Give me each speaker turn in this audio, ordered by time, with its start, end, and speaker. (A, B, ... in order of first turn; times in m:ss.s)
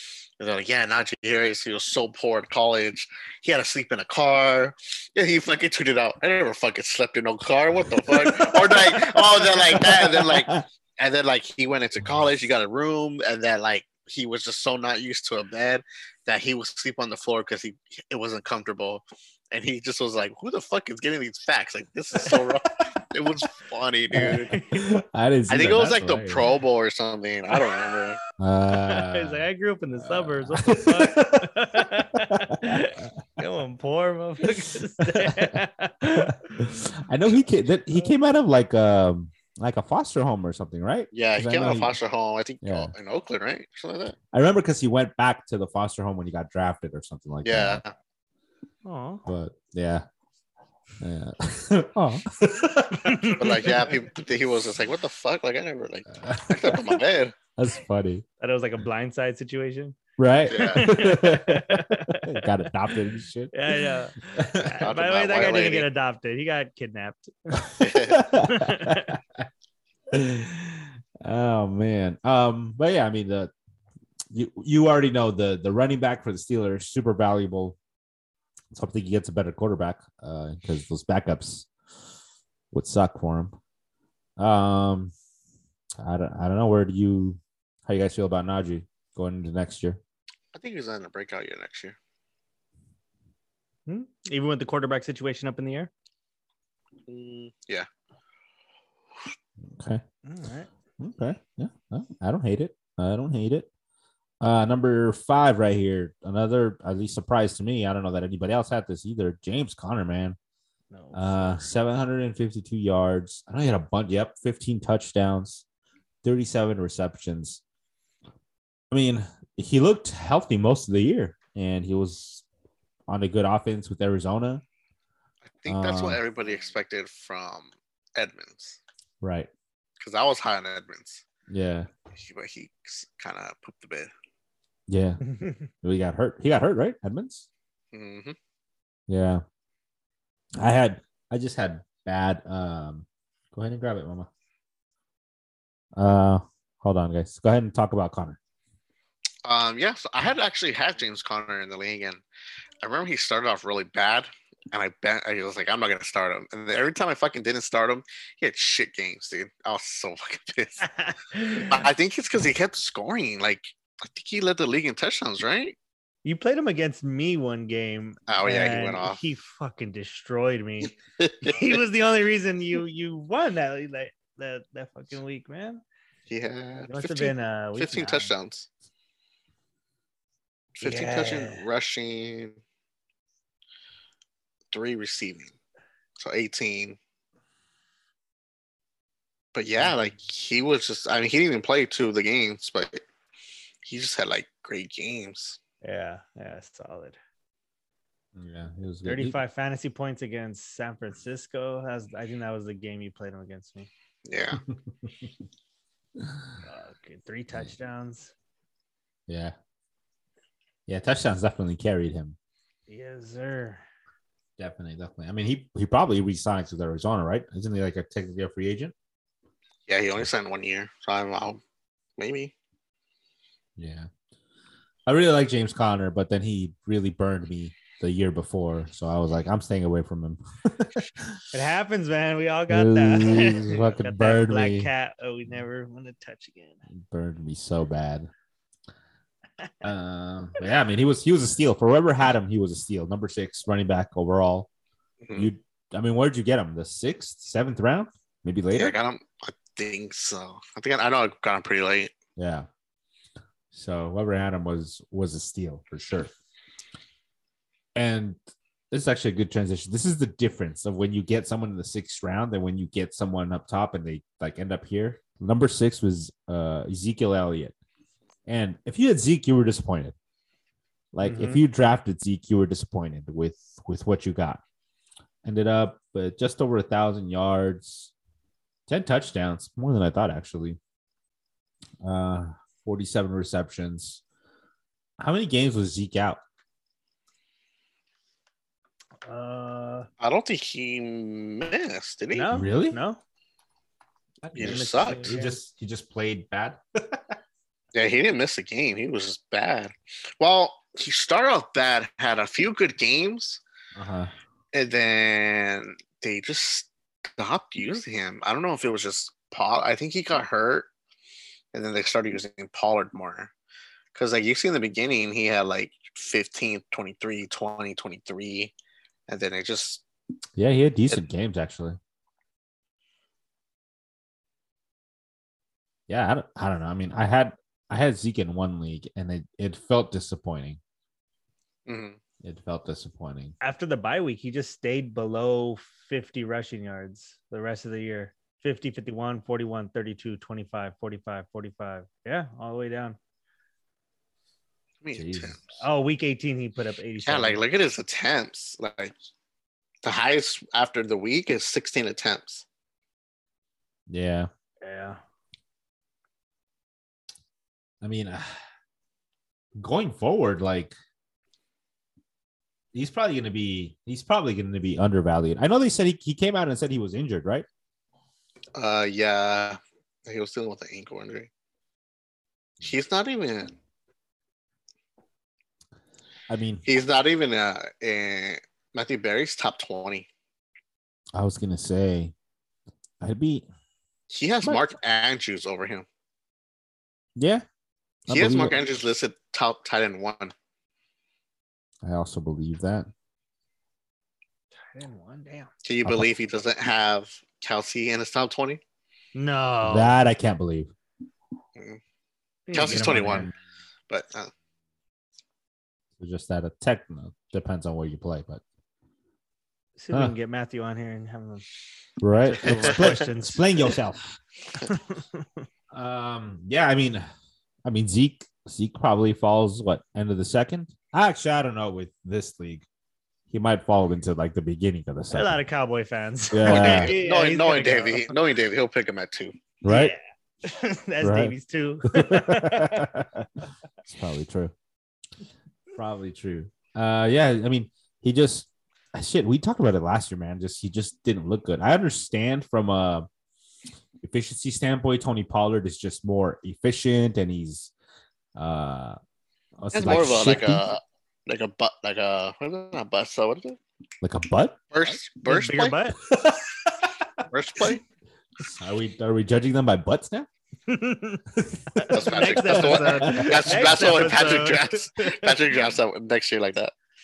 0:00.4-0:24.5 A
0:07.9-0:10.6 B
0:24.1-0:26.4 B
0:24.5-0:24.9 C
0:25.5-0:28.2 A
0:28.4-0:29.5 B
0:28.8-0:36.5 C
0:30.0-0:33.1 B
0:35.0-0:41.9 B
0:41.1-0:44.2 A
0:42.6-0:42.9 B
0:44.3-0:47.8 B
0:47.4-0:47.9 A
0:48.8-0:49.2 C
0:49.2-0:50.1 B
0:51.0-0:53.7 B
0:53.0-0:53.7 C
0:53.4-0:57.4 A
0:56.1-0:57.0 B
0:57.6-0:58.2 B
0:58.4-1:00.0 C
1:00.2-1:03.6 B
1:00.5-1:00.9 A
1:00.6-1:02.4 C
1:03.5-1:07.8 C
1:04.4-1:04.8 B
1:04.8-1:05.9 A
1:07.6-1:09.4 B
1:07.8-1:08.2 A
1:08.4-1:09.2 C
1:10.1-1:13.5 B
1:14.3-1:17.8 B
1:18.7-1:21.7 B
1:22.7-1:23.6 B
1:24.4-1:25.1 B
1:26.0-1:30.0 B
1:30.5-1:32.0 A
1:33.9-1:35.9 C
1:37.1-1:37.9 A
1:39.6-1:40.0 B
1:40.2-1:40.7 C
1:41.0-1:43.7 B
1:44.4-1:50.4 B
1:50.9-1:51.7 C
1:51.1-1:55.6 B
1:56.2-1:57.6 B
1:58.9-2:02.4 B
2:03.1-2:04.6 B
2:05.6-2:08.8 A
2:05.7-2:06.2 B
2:09.2-2:09.5 B
2:10.0-2:11.2 A
2:11.5-2:11.9 B
2:12.1-2:14.1 A
2:14.9-2:17.5 B
2:17.9-2:18.4 A
2:19.1-2:19.4 B
2:20.6-2:24.3 B
2:26.0-2:28.4 B
2:29.4-2:32.2 A
2:32.8-2:40.8 A
2:40.8-2:41.9 C
2:41.6-2:45.8 A
2:46.2-2:55.8 C
2:48.3-2:49.2 A
2:51.2-2:51.8 A
2:56.3-2:58.7 A
2:56.9-2:58.3 C
3:00.8-3:02.6 A
3:00.8-3:01.6 C
3:04.7-3:05.5 A
3:06.2-3:07.0 A
3:09.5-3:13.0 A
3:13.8-3:15.6 A
3:15.8-3:17.2 C
3:18.4-3:19.4 B
3:19.0-3:23.9 C
3:24.3-3:24.6 A
3:26.2-3:26.5 B
3:26.6-3:28.3 C
3:29.3-3:29.6 B
3:30.9-3:32.4 B
3:32.9-3:33.8 C
3:34.6-3:38.9 B
3:39.9-3:41.6 A
3:42.2-3:42.5 A
3:43.8-3:44.1 B
3:45.1-3:51.4 B
3:51.5-3:56.8 C
3:52.7-3:54.9 B
3:56.9-3:58.3 B
3:59.8-4:04.7 B
4:05.2-4:05.5 A
4:05.4-4:09.0 B
4:08.7-4:12.1 A
4:12.4-4:12.7 B
4:13.7-4:16.3 B
4:18.0-4:18.4 B
4:18.9-4:27.7 B
4:28.5-4:30.2 B
4:31.1-4:34.6 B
4:31.2-4:31.6 C
4:35.4-4:38.1 B
4:38.9-4:40.8 B
4:42.0-4:44.2 B
4:45.2-4:46.4 B
4:49.2-4:50.1 C
4:50.2-4:52.5 A
4:52.3-4:53.2 C
4:52.5-4:53.0 B
4:54.4-4:57.2 B
4:54.6-4:55.3 A
4:54.6-4:55.6 C
4:57.9-5:03.6 A
5:04.0-5:04.3 B
5:04.7-5:10.9 A
5:11.7-5:13.5 A
5:14.1-5:18.7 A
5:19.3-5:20.0 A
5:20.6-5:22.0 B
5:26.1-5:30.8 B
5:31.9-5:32.2 A
5:32.4-5:33.6 B
5:33.6-5:43.2 C
5:45.0-5:45.6 A
5:45.1-5:45.6 B
5:45.8-5:47.6 C
5:47.2-5:49.2 A
5:50.0-5:52.6 A
5:54.1-5:54.5 B
5:54.8-5:55.2 C
5:58.0-5:58.6 B
5:59.8-6:01.0 B
6:02.9-6:07.7 B
6:08.8-6:11.5 A
6:12.8-6:13.7 A
6:16.5-6:16.8 B
6:16.9-6:20.3 A
6:21.3-6:22.3 B
6:23.2-6:23.7 B
6:24.3-6:26.1 A
6:27.4-6:27.6 B
6:28.3-6:28.8 B
6:28.3-6:30.5 A
6:32.0-6:33.1 B
6:34.8-6:35.7 C
6:35.8-6:38.8 A
6:39.4-6:40.2 C
6:39.8-6:40.9 B
6:42.7-6:43.5 C
6:42.7-6:43.5 A
6:42.8-6:43.5 B
6:44.1-6:44.5 A
6:46.2-6:48.6 B
6:50.0-6:51.6 C
6:52.2-6:54.2 B
6:52.4-6:53.9 C
6:52.7-6:53.0 A
6:54.8-6:55.5 C
6:55.9-6:57.3 B
6:57.8-7:02.9 B
7:03.5-7:05.6 B
7:05.3-7:08.3 C
7:06.5-7:07.1 B
7:06.6-7:09.6 A
7:09.8-7:10.1 B
7:09.9-7:13.1 C
7:11.2-7:11.6 B
7:12.1-7:13.5 B
7:14.1-7:14.7 B
7:16.0-7:23.3 B
7:24.2-7:27.9 B
7:28.6-7:29.2 B
7:29.8-7:30.8 B
7:29.9-7:33.8 A
7:34.2-7:34.8 B
7:34.9-7:36.0 A
7:35.4-7:36.2 C
7:36.3-7:37.1 B
7:37.5-7:38.0 A
7:38.6-7:40.5 B
7:40.9-7:45.6 C
7:41.6-7:44.1 B
7:42.1-7:46.9 A